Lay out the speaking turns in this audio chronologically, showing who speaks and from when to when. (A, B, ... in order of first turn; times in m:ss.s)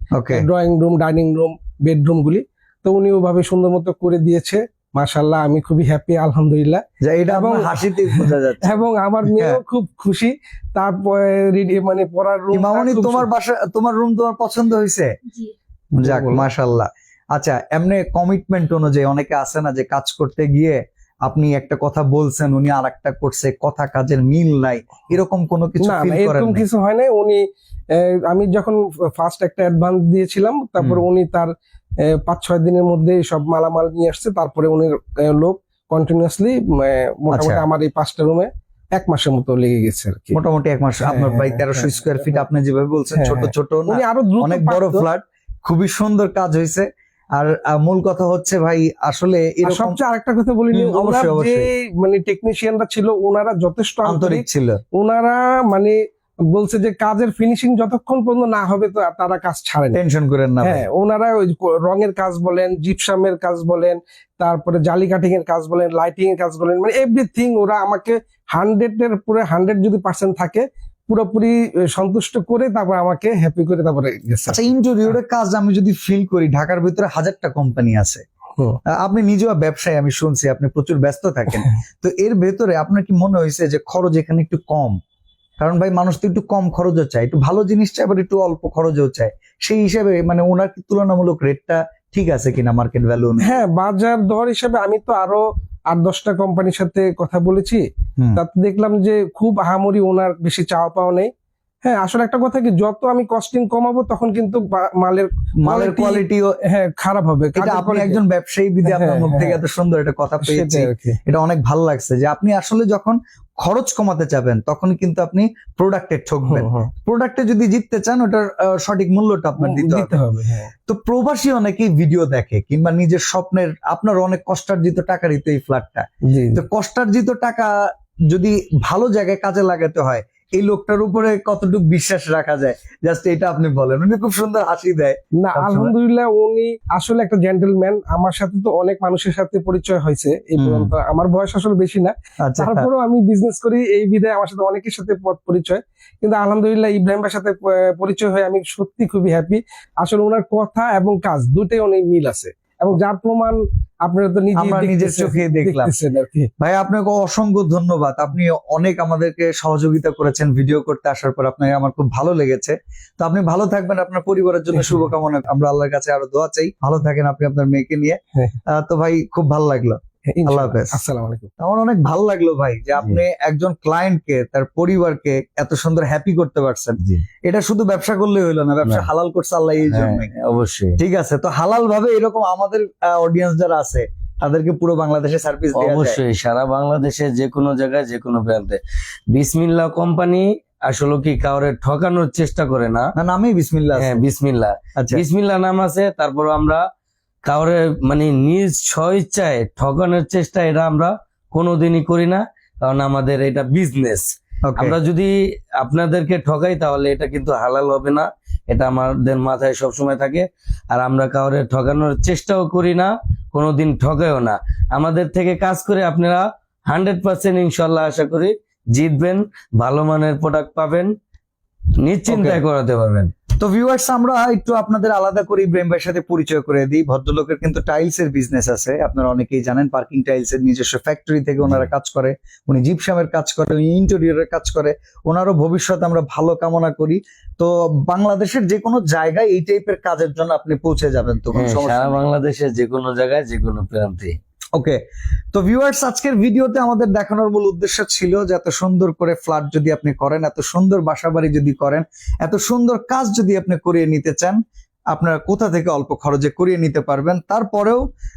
0:00.1-0:00.4 A
0:00.3-0:13.3 B
0:07.0-0:09.6 A
0:12.5-0:15.1 A
0:16.0-0:16.4 B
0:16.0-0:26.6 A
0:25.8-0:31.5 B
0:32.0-0:40.4 B
0:37.3-0:37.6 A
0:40.3-0:50.0 A
0:41.0-0:42.4 B
0:43.1-0:45.0 B
0:49.6-0:56.0 B
0:50.7-0:51.7 A
0:54.0-0:54.8 A
0:56.5-1:00.0 B
0:59.9-1:00.8 A
1:00.6-1:14.7 B
1:14.5-1:18.2 A
1:18.9-1:25.0 A
1:25.6-1:33.6 A
1:33.4-1:37.8 B
1:38.4-1:41.3 B
1:41.8-1:48.2 B
1:45.6-1:46.6 A
1:47.5-2:00.1 A
1:48.8-1:49.6 B
1:50.4-1:51.2 B
1:56.5-1:56.9 B
1:59.6-2:00.7 B
2:00.9-2:07.7 A
2:06.3-2:06.6 B
2:08.3-2:15.9 A
2:15.4-2:36.5 B
2:20.6-2:20.9 A
2:22.4-2:22.9 A
2:34.6-2:35.9 A
2:36.6-2:51.0 A
2:44.8-2:45.0 B
2:50.3-2:51.5 B
2:51.6-3:00.3 A
2:59.8-3:01.0 C
3:01.0-3:06.2 A
3:05.7-3:08.8 C
3:09.3-3:13.1 C
3:13.2-3:14.2 A
3:14.0-3:16.8 C
3:17.5-3:41.1 C
3:24.7-3:24.9 A
3:42.0-3:43.3 C
3:42.3-3:42.6 A
3:43.6-4:02.2 A
4:01.5-4:04.4 C
4:05.5-4:14.6 A
4:15.1-4:18.0 A